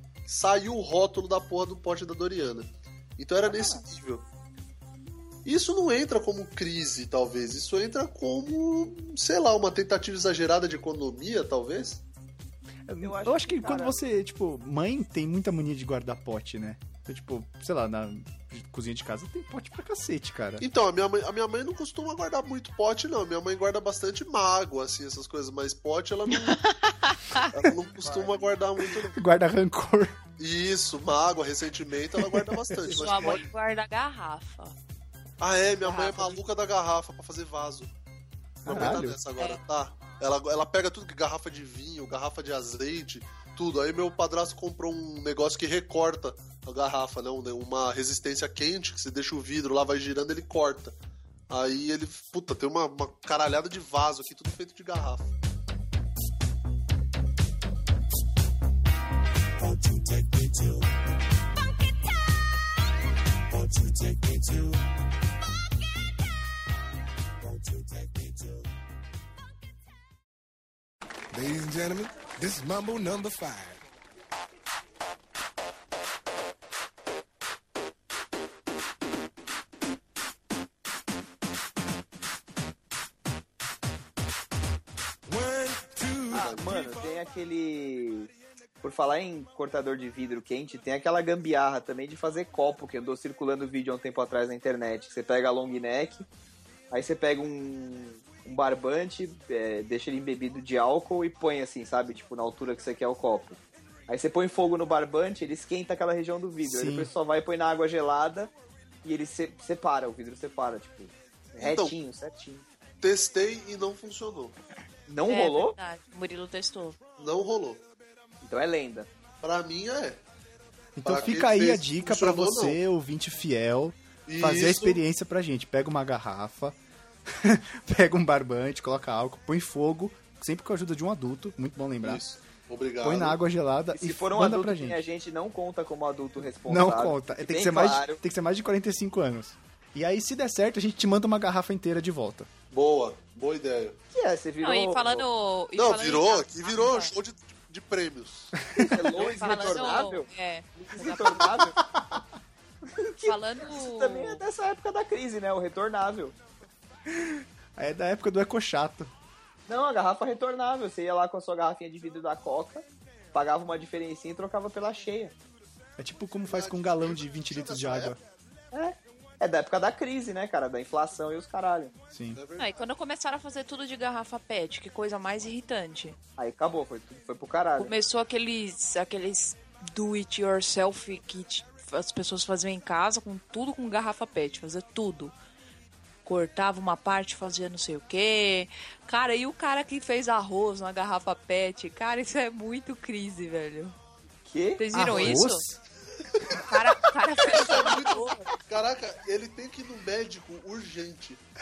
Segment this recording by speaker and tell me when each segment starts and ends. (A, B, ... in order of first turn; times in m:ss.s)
0:00.3-0:04.2 A
0:03.4-0:03.8 B
0:05.4-0:12.0 A
0:12.9-0:20.6 C
0:13.0-0:14.0 B
0:20.6-0:26.6 A
0:26.3-0:27.5 D
0:27.5-0:29.2 A
0:28.1-0:28.4 B
0:28.8-0:30.2 C
0:30.4-0:33.4 A
0:32.2-0:32.8 C
0:32.8-0:34.8 D
0:35.4-0:37.9 A
0:35.8-0:36.4 D
0:38.6-0:51.0 A
0:38.6-0:39.2 C
0:38.8-0:39.6 D
0:51.5-0:55.3 A
0:59.6-1:01.0 E
1:03.5-1:04.9 E
1:07.4-1:08.7 E
1:11.3-1:13.8 E
1:25.3-1:27.2 E
1:26.3-1:28.3 B
1:28.8-1:36.3 B
1:36.9-1:48.5 B
1:46.6-1:47.1 C
1:49.0-1:52.6 B
1:51.6-1:51.9 A
1:53.0-1:54.6 A
1:55.1-1:55.8 B
1:55.3-1:57.0 D
1:57.2-1:57.8 A
1:58.4-1:59.1 B
1:59.4-2:00.2 A
2:01.0-2:12.2 C
2:01.0-2:02.8 A
2:04.3-2:05.0 A
2:12.0-2:13.4 A
2:13.0-2:15.0 C
2:13.9-2:18.2 B
2:16.7-2:22.5 C
2:22.7-2:24.0 A
2:24.1-2:25.2 B
2:24.6-2:27.1 D
2:25.8-2:28.6 A
2:28.6-2:29.1 C
2:28.8-2:31.8 B
2:29.2-2:31.6 D
2:31.8-2:32.2 C
2:32.8-2:36.4 B
2:33.2-2:34.4 D
2:37.1-2:39.1 C
2:39.7-2:45.4 B
2:46.0-2:48.2 C
2:46.4-2:48.2 A
2:48.7-2:51.9 B
2:52.1-2:52.4 C
2:52.4-2:52.8 A
2:52.6-2:56.2 D
2:56.4-2:57.9 B
2:57.8-3:05.3 D
3:06.2-3:14.0 D
3:14.4-3:14.8 B
3:14.8-3:15.6 D
3:14.9-3:15.8 C
3:16.4-3:16.8 C
3:16.6-3:18.5 D
3:17.4-3:21.4 A